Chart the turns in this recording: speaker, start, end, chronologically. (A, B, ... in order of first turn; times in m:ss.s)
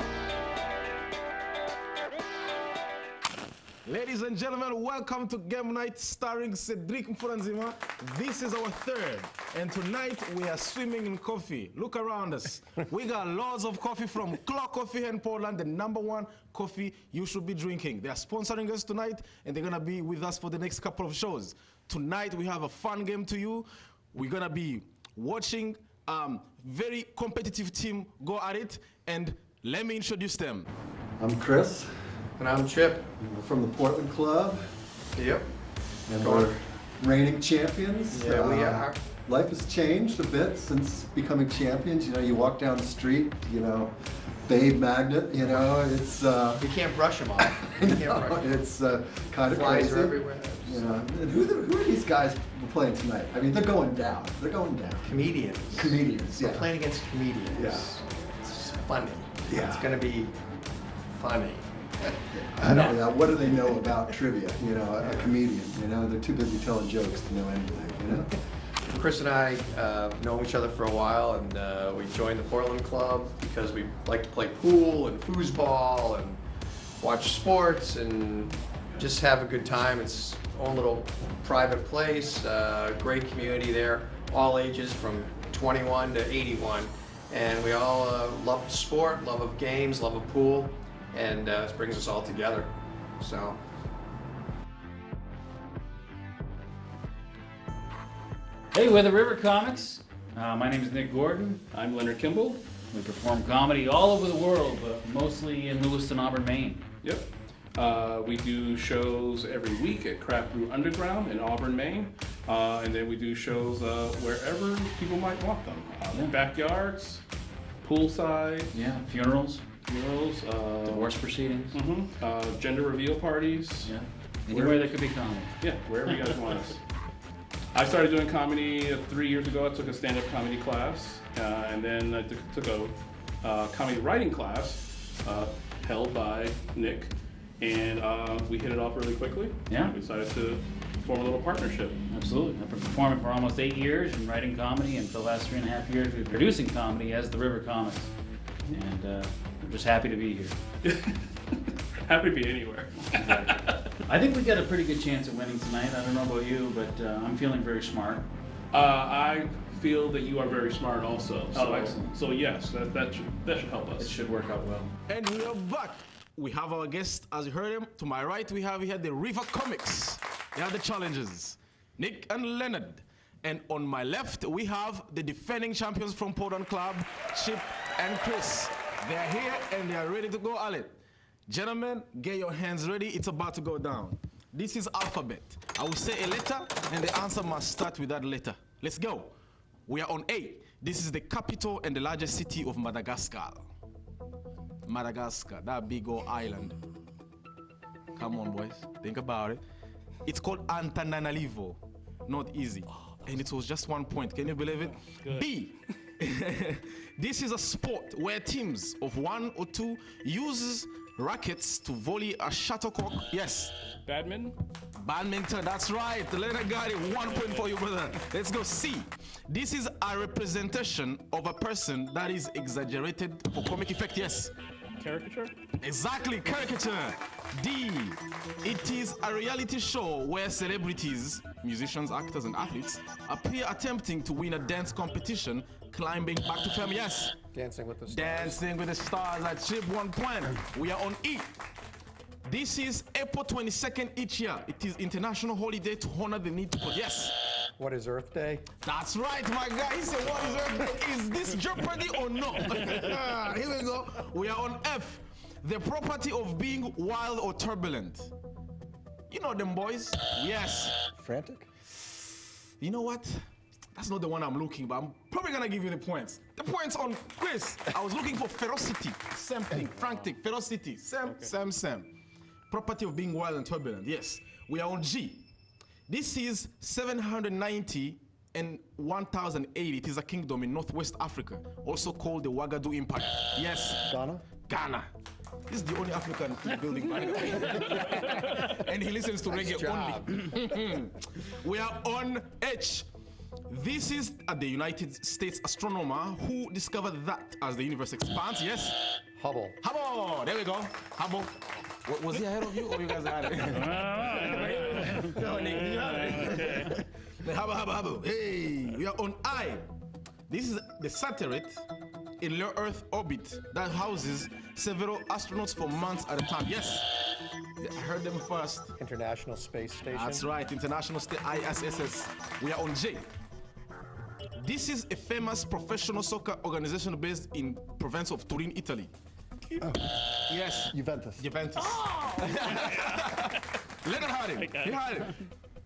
0:03.8-0:30.7 A
0:31.2-0:32.2 B
0:32.4-0:33.1 C
0:33.2-0:34.6 B
0:35.2-0:35.5 C
0:36.1-0:43.9 B
0:36.2-0:36.5 C
0:38.1-0:39.0 C
0:44.4-0:46.7 B
0:46.6-0:48.5 C
0:47.4-0:56.7 B
0:49.4-0:50.8 C
0:55.0-1:00.3 C
0:57.5-0:57.9 B
0:59.5-0:59.9 B
1:01.1-1:03.0 C
1:02.5-1:08.3 B
1:08.9-1:16.4 C
1:17.0-1:33.6 C
1:38.7-1:41.6 D
1:41.7-1:42.6 E
1:42.9-1:46.8 D
1:47.0-1:57.2 E
1:57.8-1:58.7 E
1:58.7-1:59.6 D
1:59.9-2:01.1 E
2:00.8-2:01.9 D
2:01.7-2:04.9 E
2:03.8-2:06.3 D
2:05.6-2:06.8 E
2:07.7-2:22.0 E
2:19.7-2:20.0 D
2:22.1-2:28.1 D
2:28.7-2:30.6 D
2:30.8-2:33.9 E
2:33.1-2:38.3 D
2:38.7-2:44.2 E
2:41.5-2:42.2 D
2:44.0-2:44.9 D
2:45.1-3:09.3 A
3:09.9-3:13.7 A
3:14.8-3:16.8 A
3:18.2-3:19.6 A
3:20.2-3:33.8 A
3:25.0-3:25.9 E
3:34.0-3:34.6 E
3:35.0-3:44.5 A
3:37.2-3:37.7 E
3:45.0-3:45.5 E
3:45.8-3:57.4 A
3:57.5-3:58.6 C
3:58.1-4:01.6 A
4:02.4-4:07.4 A
4:07.8-4:08.7 C
4:08.8-4:18.3 A
4:19.3-4:21.0 A
4:21.2-4:21.7 B
4:22.8-4:32.1 A
4:31.3-4:31.5 E
4:32.7-4:35.5 A
4:36.1-4:45.1 A
4:44.0-4:44.4 B
4:45.7-4:53.1 A
4:49.5-4:50.5 C
4:53.7-4:59.0 A
4:59.4-4:59.8 C
4:59.8-5:09.8 A
5:03.7-5:05.4 D
5:04.4-5:07.0 E
5:10.5-5:11.8 A
5:12.4-5:17.1 A
5:17.8-5:19.0 A
5:19.0-5:20.5 C
5:20.1-5:23.3 A
5:24.6-5:29.1 A
5:29.8-5:30.1 B
5:30.5-5:35.4 A
5:30.8-5:31.5 B
5:31.8-5:33.6 E
5:34.6-5:35.5 E